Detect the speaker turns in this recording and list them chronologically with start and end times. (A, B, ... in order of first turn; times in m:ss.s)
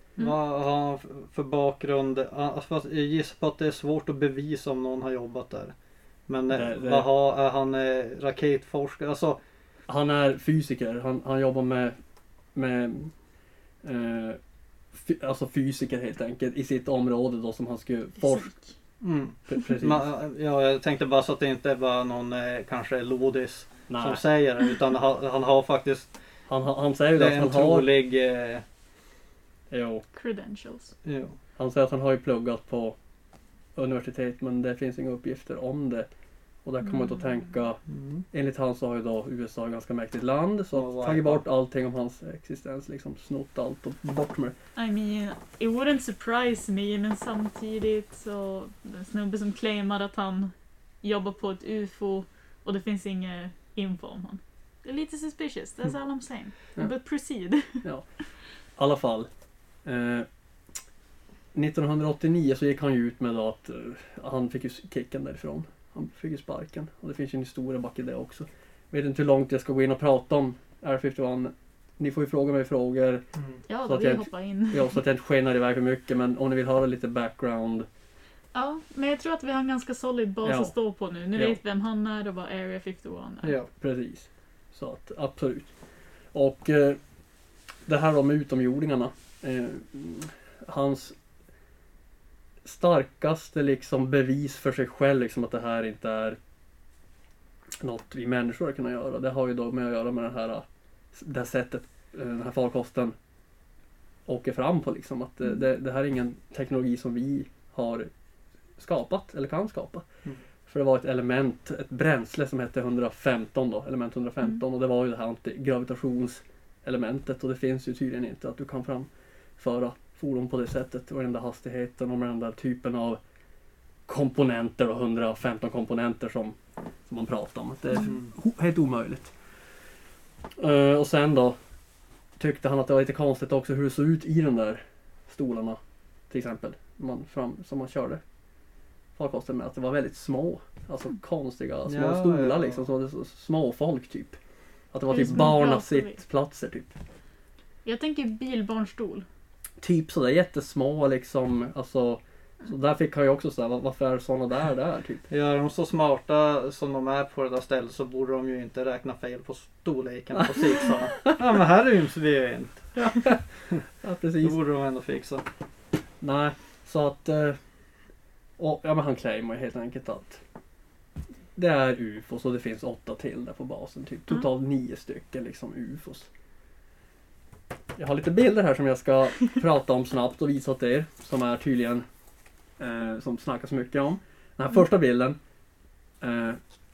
0:00.2-0:05.7 A
0:06.3-0:09.4 A
0:06.5-0:07.1 B
0:09.9-0:11.9 B
0:12.5-0:13.1 B
0:13.8-0:14.4 B
0:14.9-0:18.5 B
0:18.2-0:18.7 C
0:19.0-0:26.1 A
0:19.5-0:20.1 B
0:23.9-0:24.2 B
0:26.5-0:27.9 B
0:27.1-0:28.6 A
0:29.7-0:30.0 B
0:30.1-0:30.9 C
0:31.0-0:31.4 A
0:31.6-0:33.0 B
0:33.8-0:36.1 B
0:36.6-0:37.8 B
0:36.8-0:37.2 C
0:37.9-0:38.2 A
0:38.3-0:44.6 B
0:40.7-0:41.4 A
0:44.8-0:57.8 C
0:58.8-0:59.3 B
0:59.8-1:00.3 B
1:01.5-1:13.2 B
1:13.7-1:15.0 C
1:13.8-1:17.9 B
1:18.5-1:23.6 C
1:20.4-1:20.7 B
1:23.7-1:25.7 B
1:26.3-1:27.0 B
1:27.9-1:31.2 B
1:32.6-1:36.4 B
1:37.8-1:43.1 B
1:44.3-1:48.1 B
1:48.8-1:50.0 B
1:50.7-2:03.2 B
2:04.1-2:09.3 B
2:10.6-2:11.6 B
2:12.4-2:15.8 B
2:16.3-2:18.2 B
2:19.2-2:24.4 B
2:21.9-2:22.8 A
2:24.9-2:27.0 B
2:25.1-2:26.2 C
2:27.8-2:29.2 C
2:29.8-2:35.3 B
2:35.3-2:43.0 A
2:40.3-2:41.3 B
2:43.0-2:44.6 B
2:44.4-2:45.4 A
2:46.2-2:47.6 B
2:48.6-2:50.4 B
2:51.5-2:56.3 B
2:58.0-3:02.0 B
3:02.8-3:05.4 B
3:06.2-3:06.6 B